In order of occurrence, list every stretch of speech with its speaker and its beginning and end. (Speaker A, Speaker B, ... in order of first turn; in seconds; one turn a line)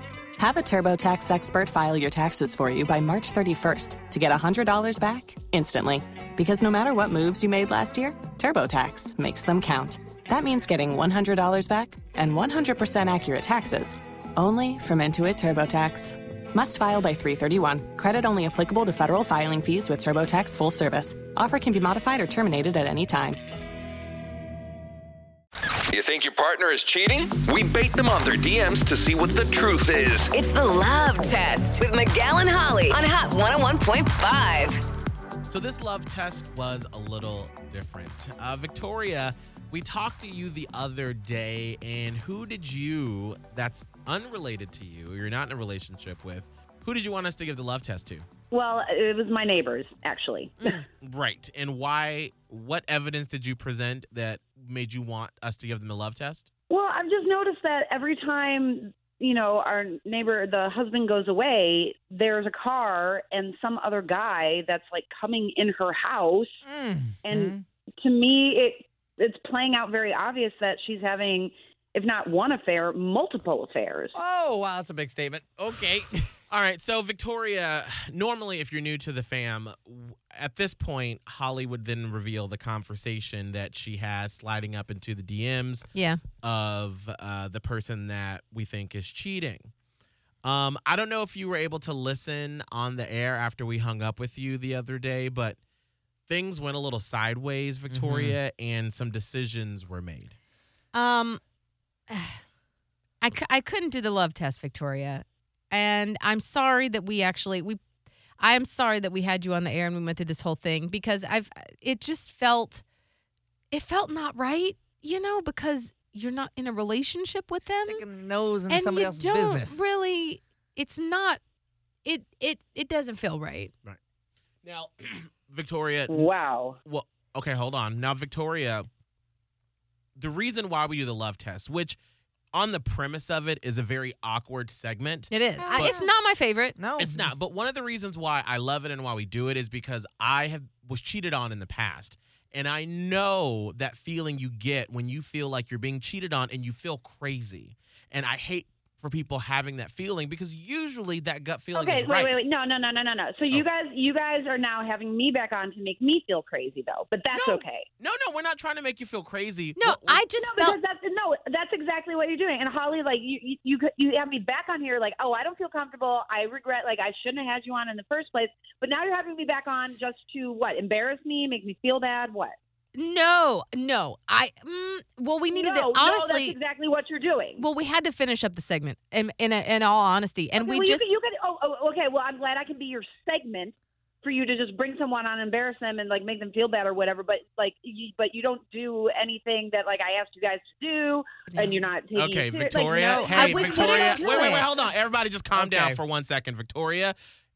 Speaker A: 0.4-23.4
Speaker B: 25.9-30.4
Speaker C: 30.3-34.8
Speaker D: 35.5-48.3
Speaker E: 48.5-50.8
Speaker D: 51.0-56.5
Speaker E: 56.7-66.6
Speaker F: 66.6-67.6
Speaker E: 67.2-74.1
Speaker F: 74.2-76.2
Speaker D: 76.5-85.9
Speaker G: 85.9-86.2
Speaker D: 86.4-89.7
Speaker D: 90.4-95.6
Speaker D: 96.3-100.3
Speaker F: 97.9-98.4
Speaker G: 100.9-101.4
Speaker G: 102.1-102.4
Speaker G: 103.2-107.8
Speaker G: 108.4-112.8
Speaker G: 113.7-118.0
Speaker F: 117.7-119.8
Speaker G: 118.7-121.4
Speaker G: 122.0-123.7
Speaker D: 124.6-126.3
Speaker E: 126.1-126.8
Speaker D: 126.9-128.9
Speaker D: 130.2-132.0
Speaker D: 132.5-136.0
Speaker G: 135.3-136.8
Speaker F: 135.6-136.1
Speaker F: 136.8-137.3
Speaker D: 137.0-152.3
Speaker E: 151.7-157.9
Speaker D: 157.3-160.3
Speaker G: 159.8-160.8
Speaker E: 160.4-172.6
Speaker G: 172.9-176.6
Speaker E: 175.5-177.7
Speaker G: 177.6-181.1
Speaker E: 180.6-194.6
Speaker D: 192.2-197.2
Speaker G: 192.9-194.7
Speaker F: 195.5-196.0